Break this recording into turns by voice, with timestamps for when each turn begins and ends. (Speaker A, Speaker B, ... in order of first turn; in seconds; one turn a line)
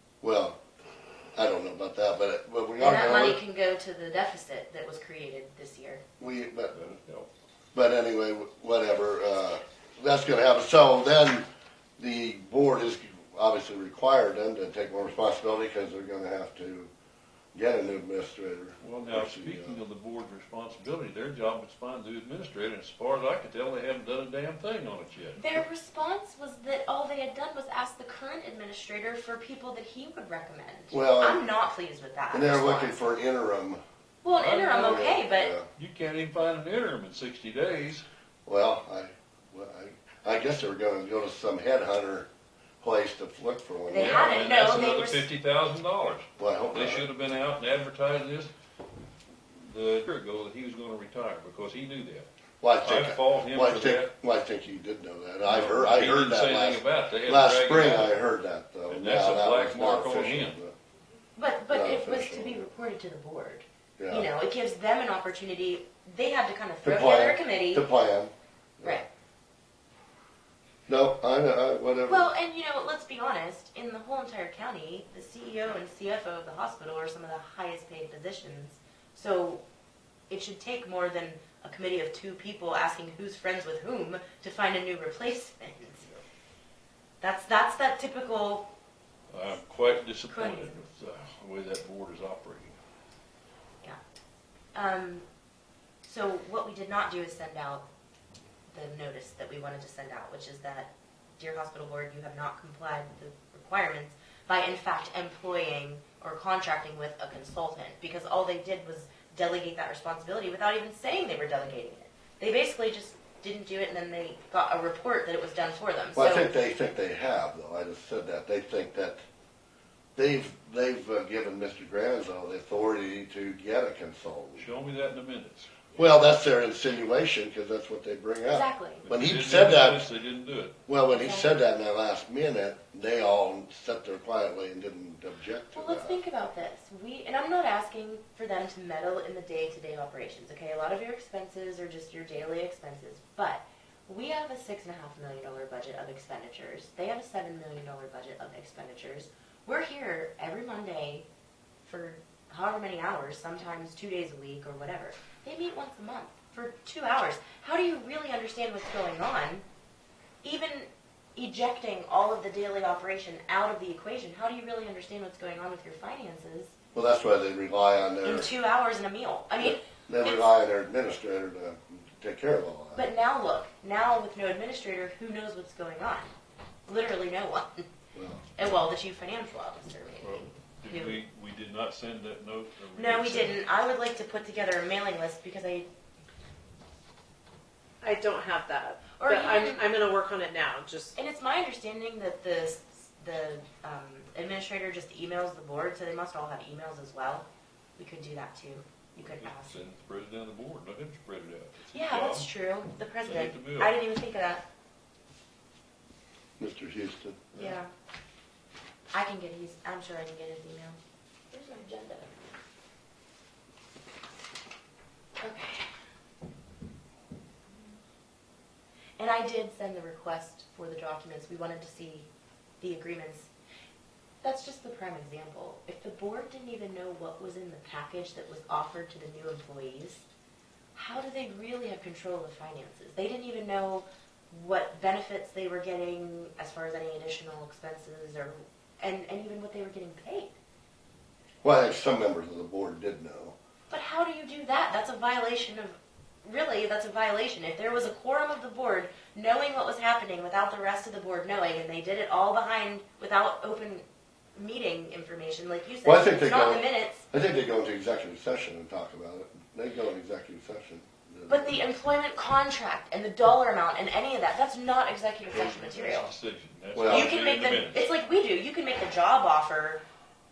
Speaker A: 0.2-0.6
Speaker A: 1.3-3.4
Speaker B: 2.8-6.0
Speaker A: 6.2-6.8
Speaker C: 6.7-7.3
Speaker A: 7.7-11.4
Speaker A: 12.0-16.9
Speaker A: 17.5-19.8
Speaker C: 18.8-25.4
Speaker B: 25.4-32.9
Speaker A: 30.9-31.4
Speaker A: 32.3-33.8
Speaker B: 34.2-35.5
Speaker C: 34.3-35.2
Speaker A: 34.8-35.6
Speaker C: 35.7-38.0
Speaker A: 38.5-42.3
Speaker A: 42.8-44.5
Speaker B: 43.9-45.2
Speaker C: 44.0-48.5
Speaker A: 46.4-47.0
Speaker C: 49.6-52.3
Speaker A: 52.6-60.7
Speaker C: 52.8-54.1
Speaker C: 55.4-58.1
Speaker C: 58.9-60.6
Speaker B: 61.4-67.8
Speaker A: 61.7-62.6
Speaker A: 64.0-64.3
Speaker A: 66.8-69.0
Speaker A: 70.9-72.3
Speaker B: 72.1-79.6
Speaker B: 80.3-86.0
Speaker B: 87.2-88.7
Speaker C: 89.3-92.8
Speaker B: 90.3-90.8
Speaker B: 94.7-95.2
Speaker B: 96.0-97.8
Speaker B: 98.7-116.5
Speaker A: 116.1-119.2
Speaker A: 120.2-124.7
Speaker C: 124.6-125.7
Speaker A: 126.0-130.1
Speaker B: 128.5-129.1
Speaker C: 129.0-130.7
Speaker A: 130.9-136.2
Speaker B: 131.1-131.5
Speaker B: 135.7-151.2
Speaker B: 151.8-159.6
Speaker B: 160.4-166.7
Speaker A: 166.9-168.5
Speaker B: 168.2-170.5
Speaker A: 169.6-173.1
Speaker B: 172.9-176.3
Speaker B: 176.9-177.9
Speaker A: 178.1-178.5
Speaker B: 178.6-181.2
Speaker C: 180.2-183.6
Speaker B: 182.9-185.9
Speaker D: 188.0-191.1
Speaker B: 189.2-189.9
Speaker B: 191.2-197.4
Speaker B: 198.0-199.8
Speaker C: 199.2-202.5
Speaker B: 201.9-204.6
Speaker C: 203.2-203.9
Speaker A: 206.6-207.7
Speaker B: 207.5-207.9
Speaker B: 209.1-211.0
Speaker B: 211.5-212.3
Speaker B: 215.4-215.9
Speaker B: 219.2-222.3
Speaker B: 222.8-223.5
Speaker B: 224.4-230.2
Speaker B: 230.9-240.6
Speaker A: 241.6-243.5
Speaker B: 243.9-254.0
Speaker B: 254.6-257.2
Speaker A: 256.0-261.8
Speaker B: 261.5-266.3
Speaker C: 265.5-268.0
Speaker A: 266.9-267.3
Speaker B: 267.1-270.0